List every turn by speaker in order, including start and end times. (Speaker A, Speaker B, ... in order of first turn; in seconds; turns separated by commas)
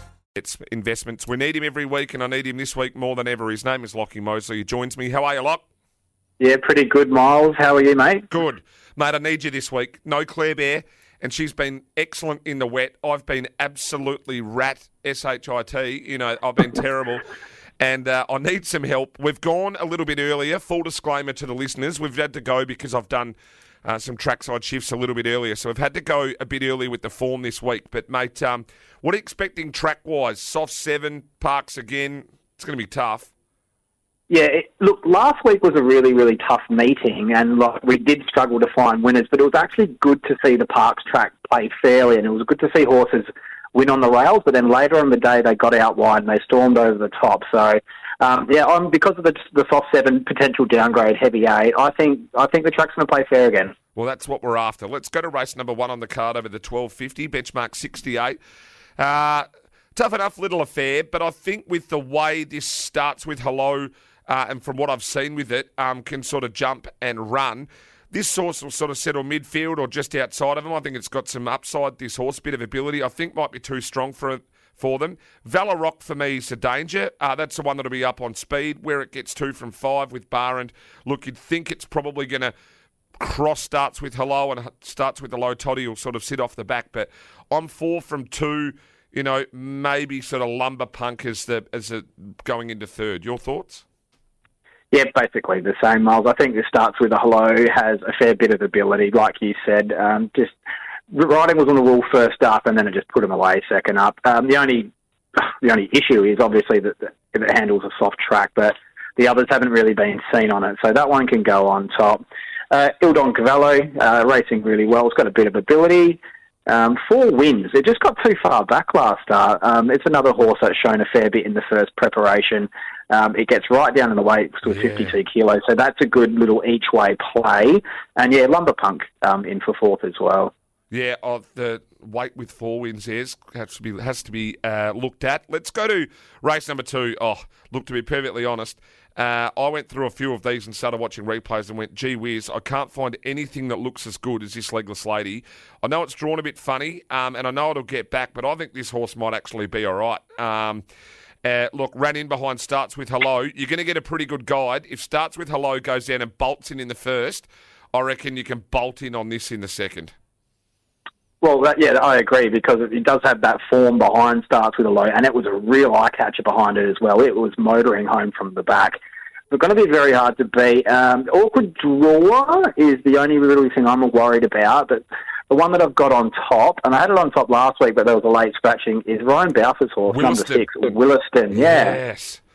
Speaker A: 0.3-5.6, Speaker B: 6.4-8.3, Speaker A: 8.3-17.2, Speaker A: 17.8-33.3, Speaker B: 34.3-53.7, Speaker A: 54.0-58.4, Speaker A: 59.0-82.5, Speaker A: 83.2-93.8, Speaker B: 94.9-100.6, Speaker B: 101.1-130.5, Speaker A: 124.7-125.1, Speaker A: 130.9-150.8, Speaker A: 151.4-160.1, Speaker B: 161.4-169.0, Speaker B: 169.5-182.0, Speaker A: 180.1-180.7, Speaker A: 181.5-182.4